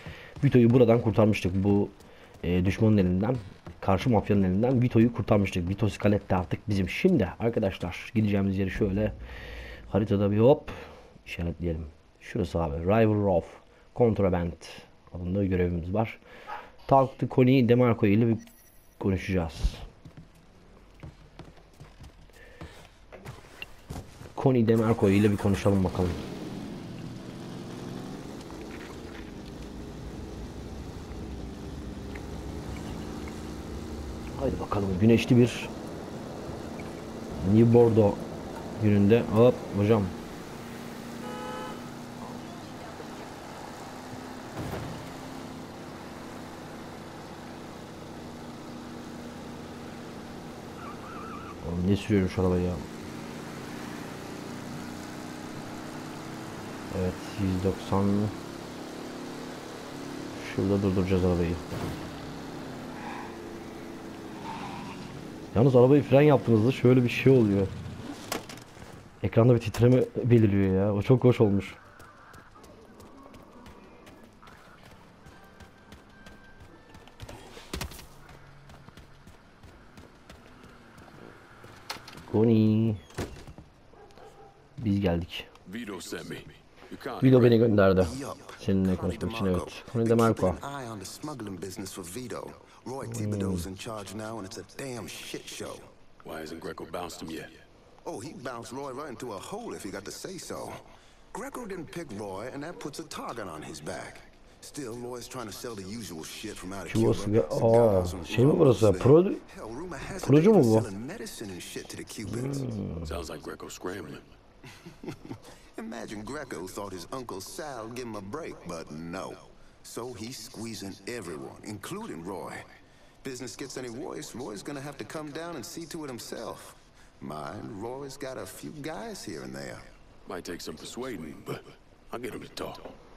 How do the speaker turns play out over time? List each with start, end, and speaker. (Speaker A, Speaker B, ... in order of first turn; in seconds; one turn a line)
Speaker A: 0.4-9.1
Speaker A: 9.9-16.2
Speaker A: 16.9-18.4
Speaker A: 19.0-19.8
Speaker A: 24.3-26.2
Speaker A: 34.4-35.7
Speaker A: 37.4-38.2
Speaker A: 38.8-40.1
Speaker A: 51.6-52.8
Speaker A: 56.9-58.3
Speaker A: 60.3-61.6
Speaker A: 65.5-67.7
Speaker A: 69.2-71.8
Speaker A: 82.3-83.0
Speaker A: 84.8-85.5
Speaker B: 85.7-87.6
Speaker A: 87.2-90.6
Speaker C: 88.0-95.9
Speaker A: 93.0-93.6
Speaker B: 96.2-97.6
Speaker C: 98.0-112.7
Speaker A: 106.9-109.4
Speaker A: 110.2-110.9
Speaker A: 112.7-113.0
Speaker B: 113.0-114.3
Speaker C: 114.8-122.7
Speaker C: 123.2-129.9
Speaker B: 130.2-132.9